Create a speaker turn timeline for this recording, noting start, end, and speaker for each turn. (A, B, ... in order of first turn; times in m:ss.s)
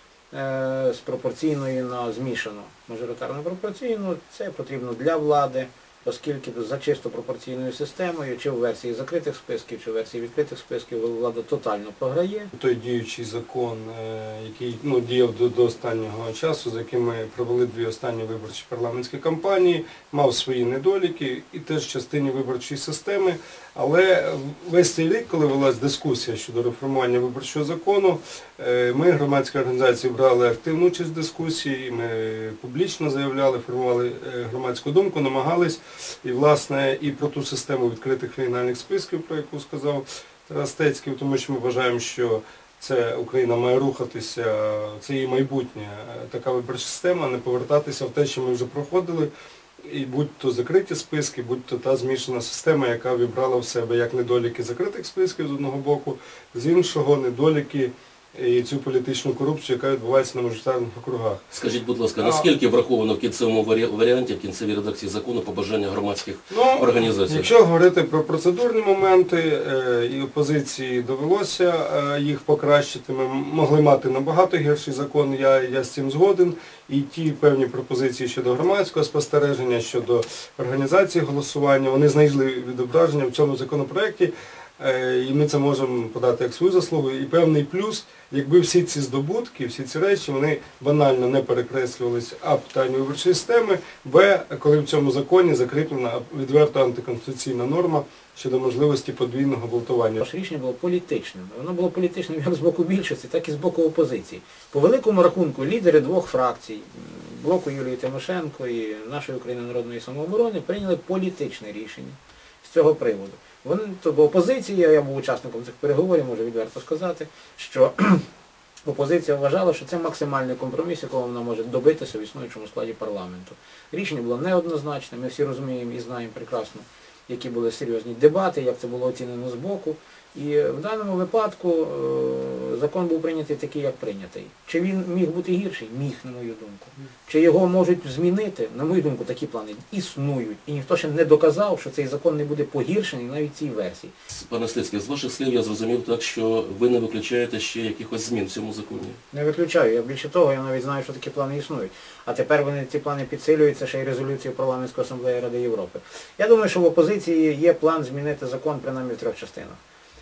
0:00.3-0:12.5 A
0:12.6-0:49.3 B
0:49.8-1:01.5 B
1:01.5-1:07.5 C
1:02.2-1:02.4 B
1:06.5-1:40.2 B
1:40.2-1:58.2 A
1:58.8-2:24.1 A
2:24.3-2:29.2 C
2:29.3-2:39.8 A